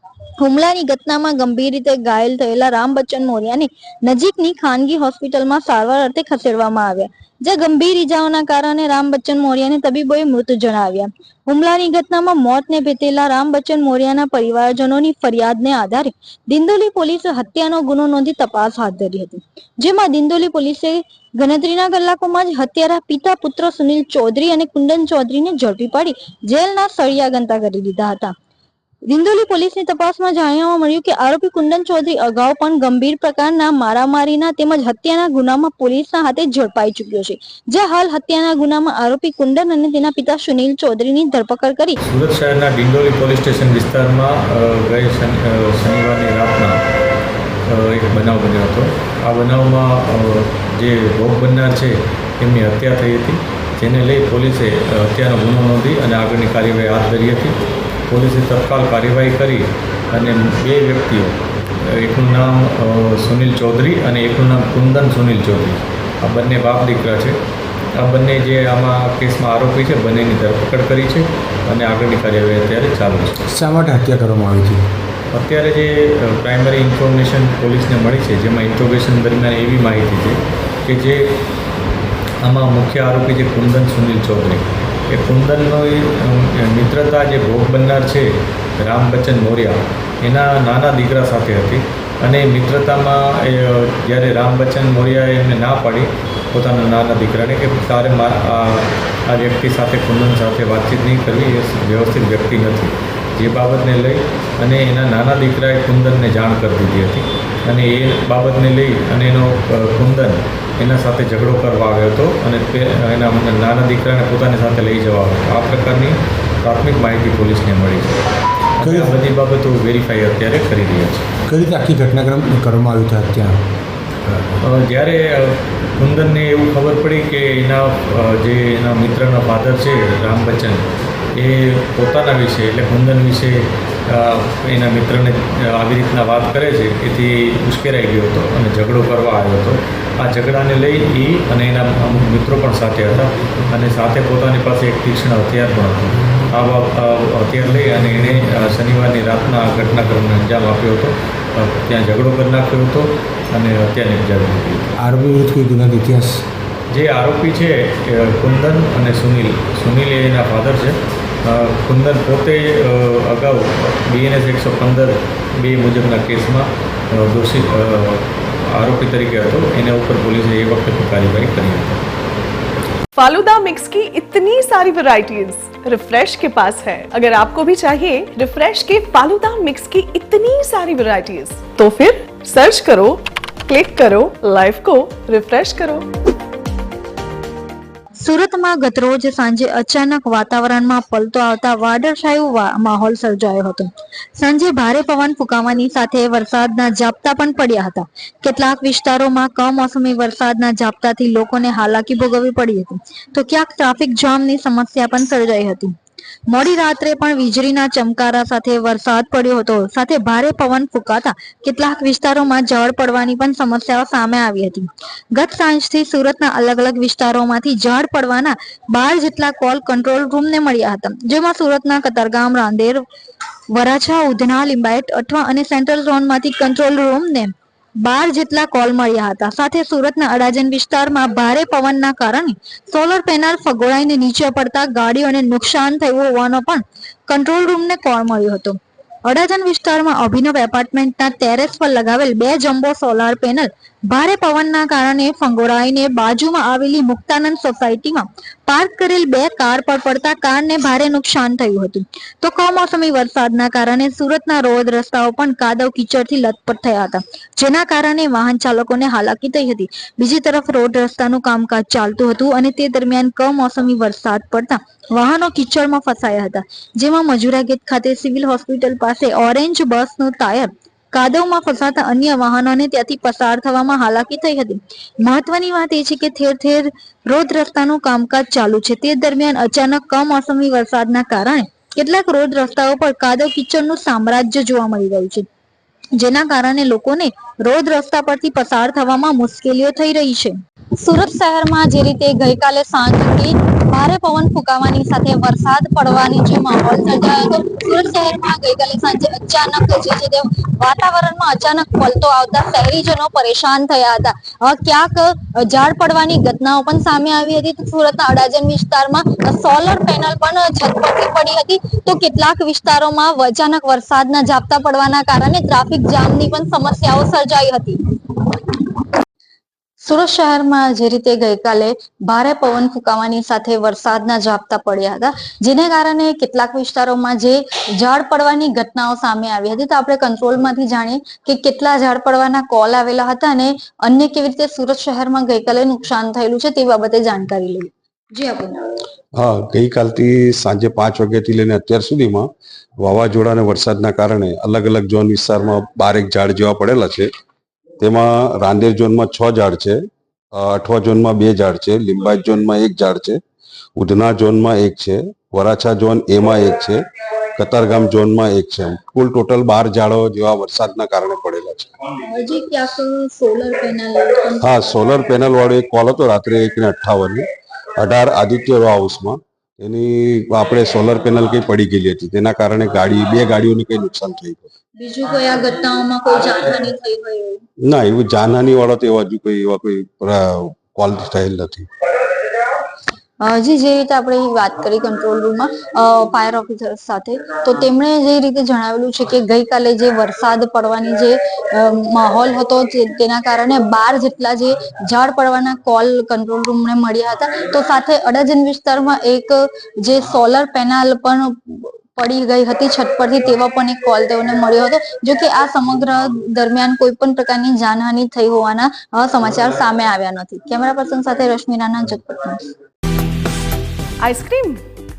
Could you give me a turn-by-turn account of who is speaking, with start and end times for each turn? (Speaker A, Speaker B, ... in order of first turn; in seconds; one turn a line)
Speaker A: 0.4-28.3
Speaker A: 29.1-42.0
Speaker B: 42.1-46.8
Speaker B: 47.7-57.5
Speaker B: 58.1-67.4
Speaker B: 68.0-73.3
Speaker C: 73.5-74.8
Speaker B: 75.3-81.3
Speaker B: 82.4-118.2
Speaker B: 118.8-121.3
Speaker C: 118.8-119.1
Speaker C: 121.5-123.6
Speaker B: 124.6-154.8
Speaker C: 155.0-156.4
Speaker B: 156.9-172.0
Speaker D: 173.2-183.1
Speaker D: 183.7-186.0
Speaker A: 188.2-205.9
Speaker A: 206.5-223.0
Speaker A: 223.7-227.5
Speaker A: 228.0-285.4
Speaker A: 286.1-318.4
Speaker A: 320.0-338.8
Speaker E: 339.3-342.5
Speaker E: 343.0-347.3
Speaker E: 348.0-353.4
Speaker E: 354.0-357.0
Speaker E: 357.6-361.9
Speaker A: 362.2-364.9
Speaker E: 364.6-367.4
Speaker E: 368.0-374.7
Speaker A: 375.0-377.6
Speaker E: 377.8-381.9
Speaker A: 383.4-412.6
Speaker D: 414.2-414.8